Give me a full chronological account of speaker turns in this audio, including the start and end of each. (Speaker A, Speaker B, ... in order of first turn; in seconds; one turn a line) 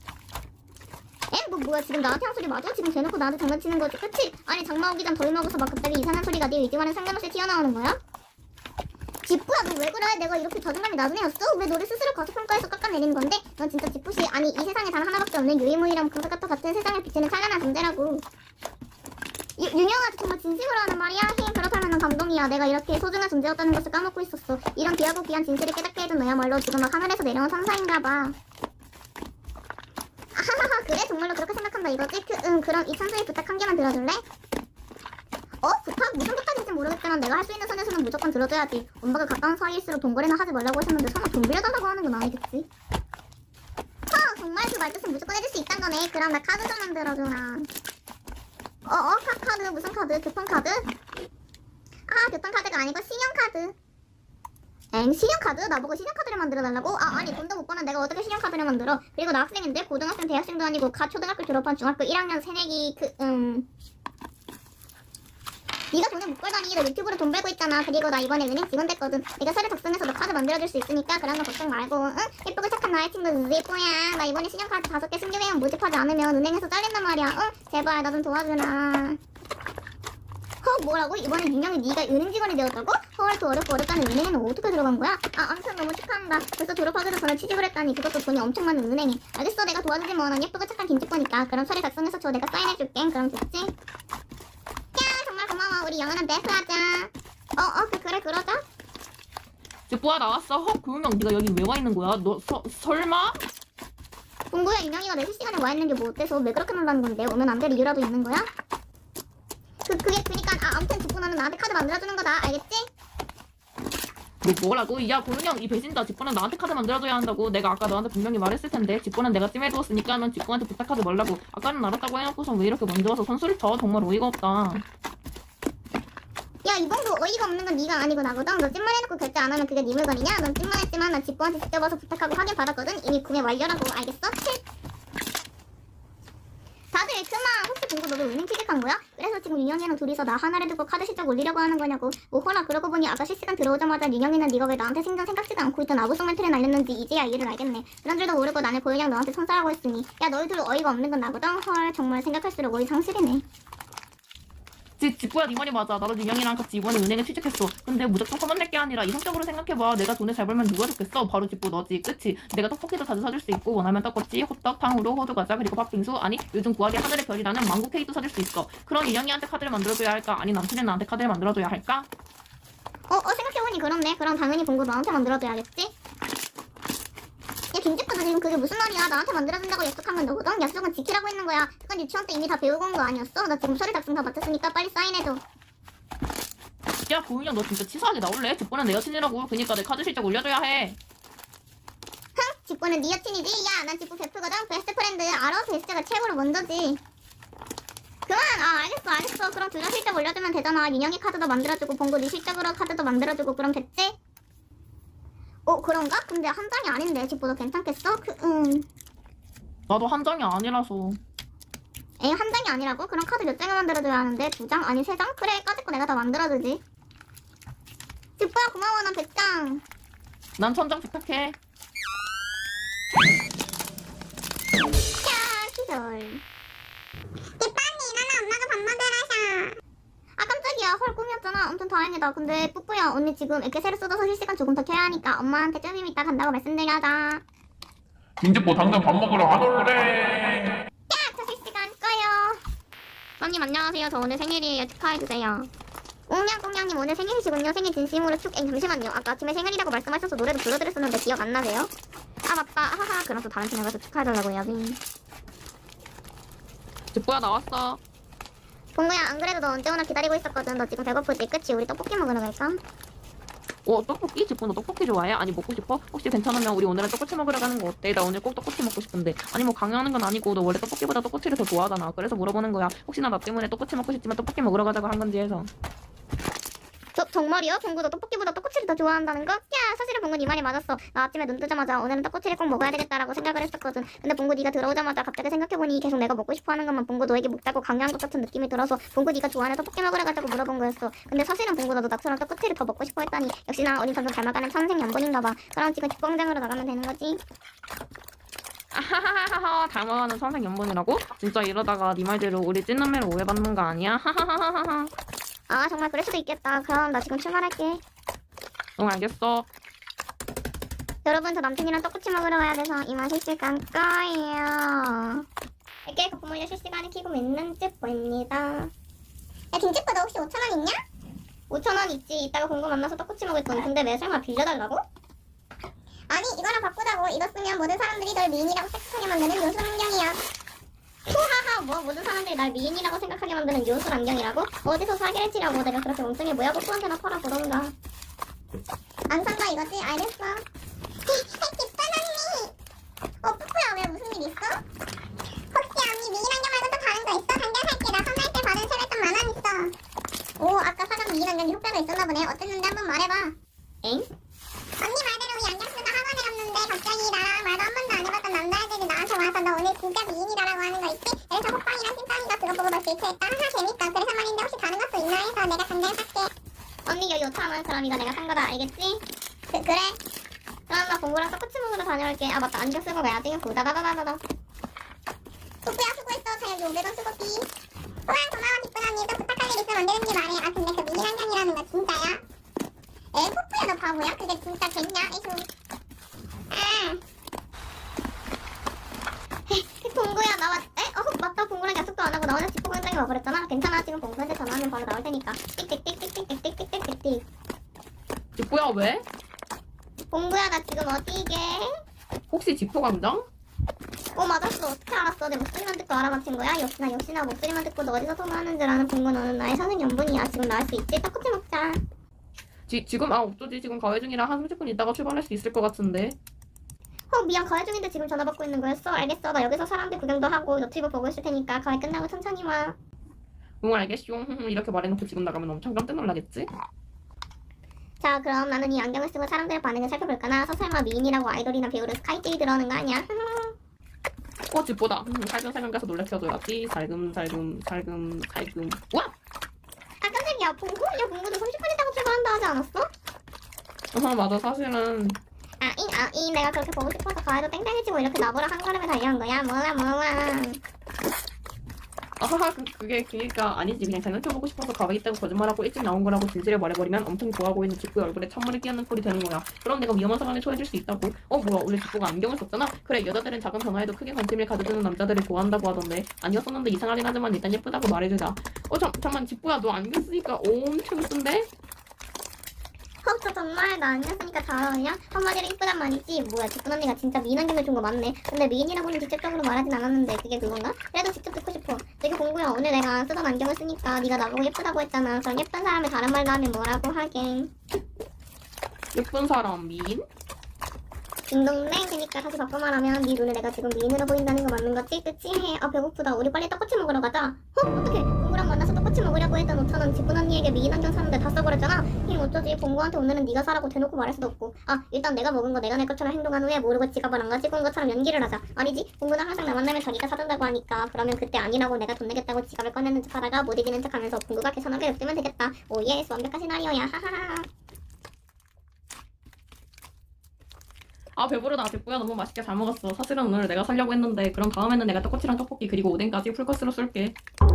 Speaker A: 1.3-8.0
Speaker A: 9.2-18.2
Speaker A: 19.6-28.3
Speaker A: 30.3-34.2
Speaker A: 35.6-42.7
Speaker A: 44.1-47.7
Speaker A: 48.9-50.9
Speaker A: 52.1-53.7
Speaker A: 54.9-63.6
Speaker A: 65.9-79.2
Speaker A: 80.6-93.7
Speaker A: 94.9-98.6
Speaker B: 99.9-103.4
Speaker A: 104.5-108.5
Speaker A: 109.8-112.8
Speaker B: 114.4-124.8
Speaker A: 126.6-134.6
Speaker A: 136.9-153.4
Speaker B: 155.0-172.1
Speaker A: 173.1-175.9
Speaker A: 177.7-185.4
Speaker B: 187.1-191.0
Speaker A: 192.3-197.0
Speaker A: 198.3-204.1
Speaker A: 205.7-208.8
Speaker B: 209.9-211.2
Speaker A: 212.2-216.8
Speaker A: 218.4-219.8
Speaker B: 220.6-221.6
Speaker A: 225.2-226.4
Speaker C: 227.6-229.7
Speaker A: 230.4-237.4
Speaker D: 238.4-240.8
Speaker A: 241.1-242.6
Speaker B: 243.4-245.7
Speaker A: 246.3-251.9
Speaker B: 252.5-254.6
Speaker B: 257.1-258.0
Speaker A: 258.9-262.8
Speaker B: 263.9-275.7
Speaker A: 277.1-297.4
Speaker B: 298.9-305.1
Speaker A: 305.7-308.0
Speaker B: 309.0-309.7
Speaker A: 311.2-315.4
Speaker A: 316.1-318.9
Speaker A: 319.7-321.0
Speaker A: 321.7-325.0
Speaker A: 326.3-330.4
Speaker A: 331.3-337.9
Speaker A: 339.3-340.6
Speaker C: 341.5-342.6
Speaker A: 343.4-344.7
Speaker C: 345.7-349.9
Speaker A: 350.6-351.3
Speaker C: 351.2-353.5
Speaker A: 354.0-354.3
Speaker C: 355.0-366.5
Speaker A: 367.1-369.2
Speaker A: 369.8-370.1
Speaker A: 370.9-374.4
Speaker C: 375.9-377.6
Speaker C: 378.3-382.4
Speaker C: 383.3-385.6
Speaker A: 386.7-387.2
Speaker A: 389.7-397.4
Speaker B: 398.6-399.2
Speaker A: 400.3-401.9
Speaker B: 402.5-403.4
Speaker A: 404.3-412.0
Speaker B: 412.9-416.4
Speaker A: 417.3-422.9
Speaker B: 423.8-426.7
Speaker A: 428.2-433.7
Speaker B: 434.7-439.3
Speaker A: 440.2-443.1
Speaker B: 444.1-445.4
Speaker A: 445.8-450.8
Speaker B: 452.4-471.7
Speaker A: 473.2-487.7
Speaker B: 489.1-490.2
Speaker A: 491.5-517.7
Speaker B: 521.4-527.3